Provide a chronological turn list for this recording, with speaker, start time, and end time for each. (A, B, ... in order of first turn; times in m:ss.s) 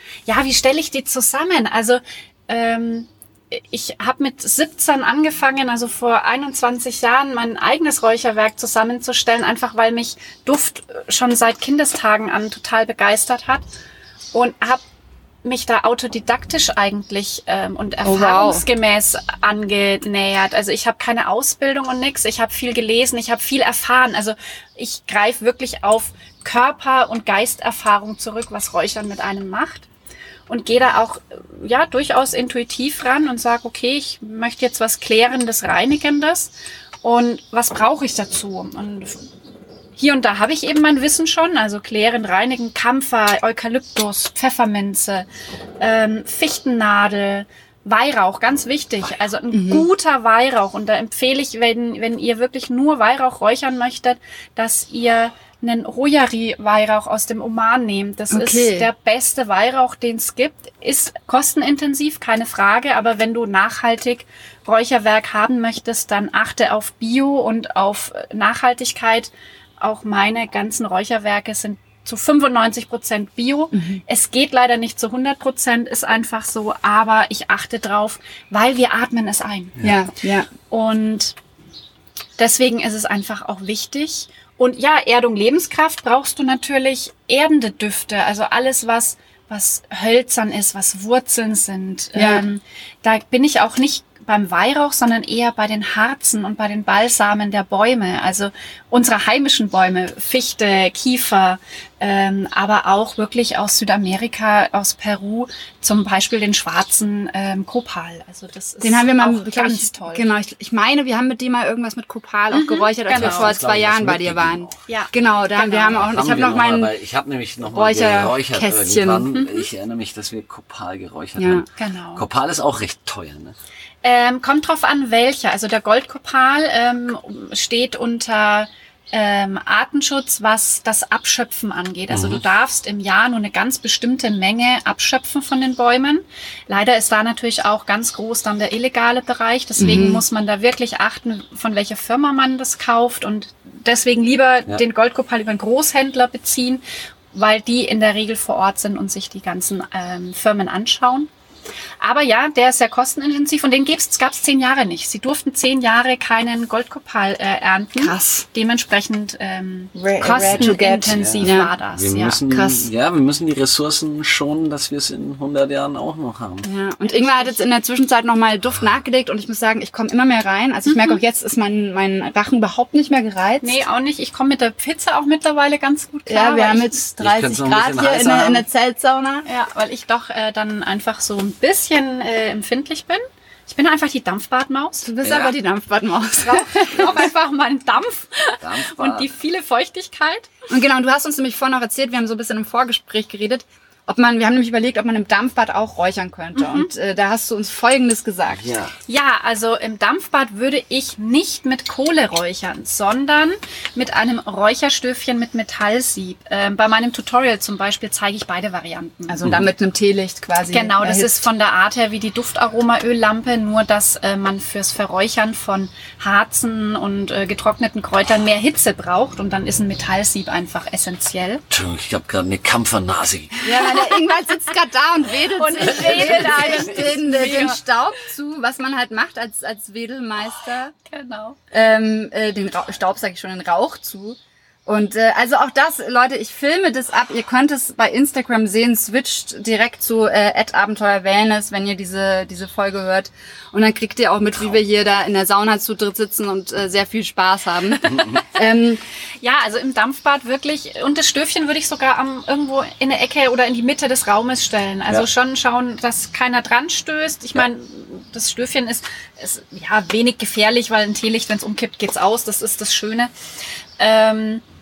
0:00.3-0:13.6 A
0:14.3-0:14.8 A
0:15.4-0:29.9 A
0:18.0-0:18.6 B
0:30.5-0:39.3 A
0:40.0-0:45.3 A
0:45.8-1:20.0 A
0:49.5-0:49.9 B
0:58.3-0:58.9 B
1:13.7-1:14.0 B
1:19.8-1:20.5 B
1:20.7-1:21.4 A
1:22.4-1:50.3 A
1:32.2-1:32.5 B
1:48.8-1:56.9 B
1:52.5-1:53.5 A
1:53.1-1:54.8 C
1:54.9-1:56.0 A
1:55.9-2:03.6 C
1:57.6-1:59.3 B
1:59.3-1:59.7 A
2:01.4-2:01.7 B
2:01.8-2:02.2 A
2:04.0-2:31.3 A
2:12.1-2:12.4 C
2:19.8-2:20.2 B
2:32.0-2:42.4 A
2:38.0-2:38.5 B
2:40.0-2:41.7 B
2:40.3-2:46.7 C
2:42.5-2:42.9 B
2:46.6-2:53.8 B
2:47.0-2:47.6 A
2:50.9-2:51.2 A
2:53.6-2:56.9 A
2:56.3-2:59.5 B
2:57.2-2:58.7 C
2:59.5-3:05.1 A
3:05.0-3:07.2 B
3:05.2-3:05.5 C
3:06.4-3:10.5 A
3:07.0-3:07.3 C
3:08.6-3:09.3 C
3:10.7-3:18.7 B
3:16.6-3:16.9 A
3:18.5-3:19.0 C
3:19.1-3:29.4 A
3:29.3-3:31.5 B
3:30.7-3:41.6 A
3:41.7-3:43.7 C
3:43.6-3:50.9 B
3:45.6-3:47.8 A
3:45.9-3:47.0 C
3:51.1-3:51.6 A
3:51.7-4:09.0 B
4:09.4-4:23.3 A
4:24.0-4:24.6 A